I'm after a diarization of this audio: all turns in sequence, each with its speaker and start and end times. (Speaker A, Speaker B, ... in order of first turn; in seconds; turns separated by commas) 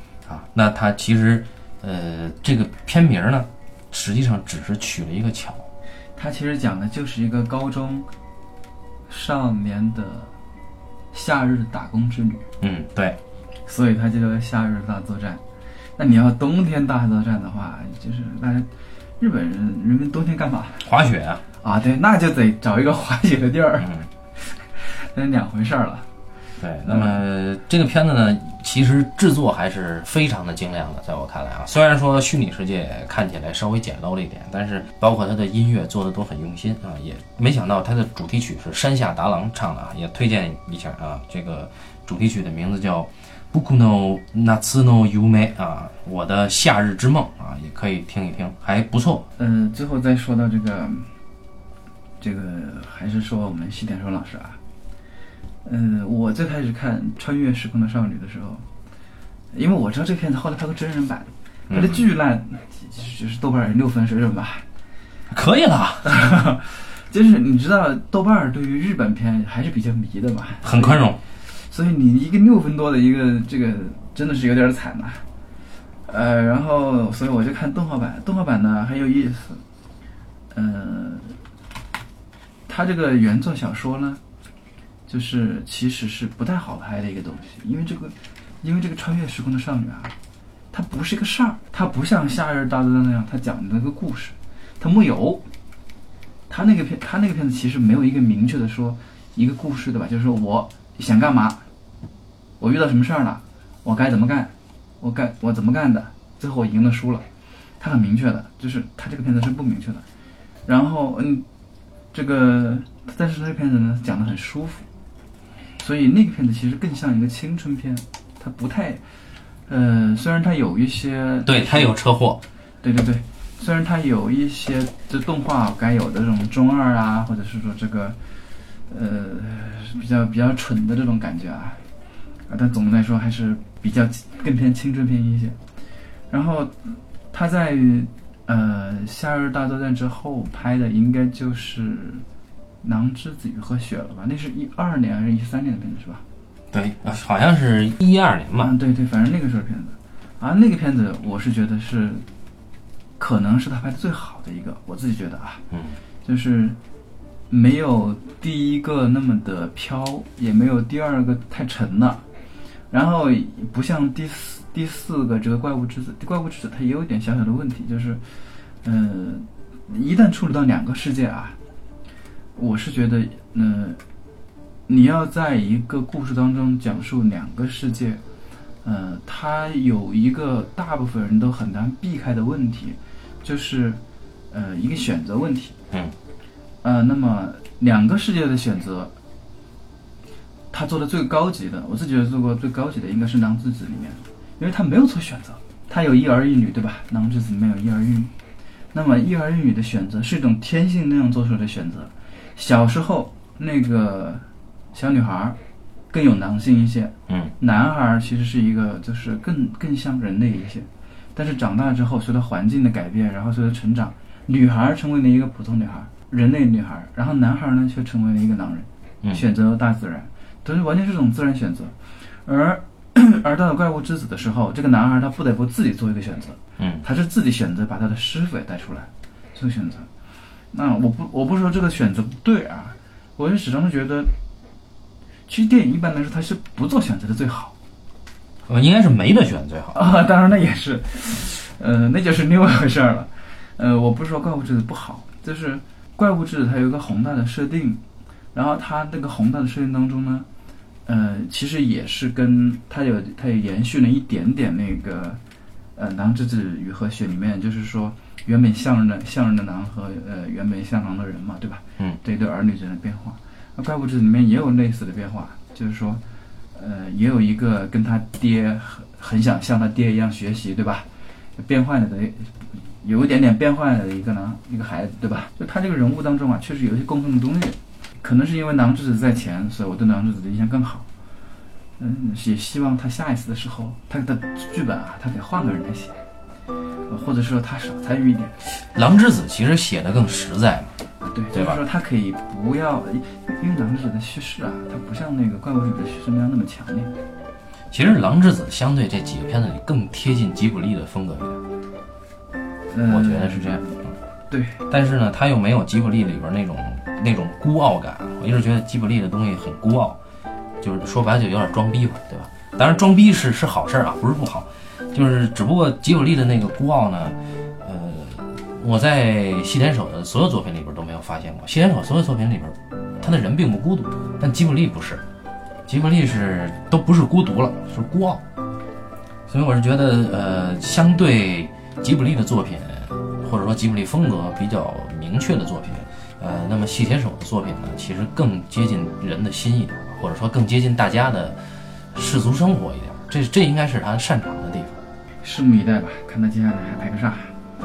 Speaker A: 0.3-5.7, Speaker B: 6.2-8.1, Speaker B: 9.1-10.3, Speaker B: 11.1-12.5, Speaker A: 12.6-13.2, Speaker B: 13.7-15.4, Speaker B: 16.0-18.7, Speaker B: 19.2-20.9, Speaker A: 20.9-21.4, Speaker B: 21.6-26.1, Speaker A: 23.8-24.1, Speaker A: 26.6-49.3, Speaker B: 26.8-27.2, Speaker B: 49.4-51.1, Speaker B: 52.2-54.6, Speaker B: 55.6-58.6, Speaker B: 59.5-64.7, Speaker A: 61.7-62.0, Speaker A: 65.3-66.1, Speaker B: 66.0-75.2, Speaker A: 70.6-71.2, Speaker B: 76.1-79.6, Speaker B: 80.5-81.4, Speaker B: 82.7-84.2, Speaker B: 85.1-90.2, Speaker B: 90.7-95.5, Speaker B: 96.5-101.6, Speaker B: 102.6-107.2, Speaker B: 107.8-110.0, Speaker B: 110.7-111.5, Speaker B: 112.1-114.9, Speaker B: 115.8-119.0, Speaker B: 119.7-122.0, Speaker A: 121.5-122.4, Speaker B: 122.8-128.2, Speaker B: 128.9-131.8, Speaker B: 132.5-135.6, Speaker B: 136.3-142.2, Speaker B: 142.8-146.2, Speaker A: 146.7-148.7, Speaker B: 148.6-152.2, Speaker B: 153.2-155.6, Speaker A: 155.7-156.0, Speaker B: 156.2-156.8, Speaker B: 157.5-162.2, Speaker B: 162.9-168.2, Speaker B: 168.8-171.6, Speaker B: 172.6-174.0, Speaker B: 174.9-178.2, Speaker B: 178.8-184.0, Speaker B: 184.5-185.8, Speaker B: 186.8-189.1, Speaker B: 190.7-198.3, Speaker B: 198.9-205.6, Speaker B: 206.1-230.1, Speaker A: 226.8-227.0, Speaker B: 230.7-234.3, Speaker B: 235.5-237.7, Speaker A: 238.7-240.0, Speaker B: 239.9-248.0, Speaker B: 248.5-250.5, Speaker B: 251.1-255.4, Speaker B: 256.0-266.2, Speaker B: 266.7-281.1, Speaker B: 282.0-286.1, Speaker B: 287.1-288.6, Speaker A: 288.8-290.9, Speaker B: 291.2-297.1, Speaker A: 291.5-291.8, Speaker A: 297.9-301.6, Speaker B: 302.9-304.0, Speaker A: 303.1-304.1, Speaker B: 304.5-304.8, Speaker A: 304.9-310.2, Speaker A: 310.8-325.2, Speaker A: 325.9-328.4, Speaker A: 329.5-341.6, Speaker A: 342.1-345.0, Speaker B: 345.4-347.6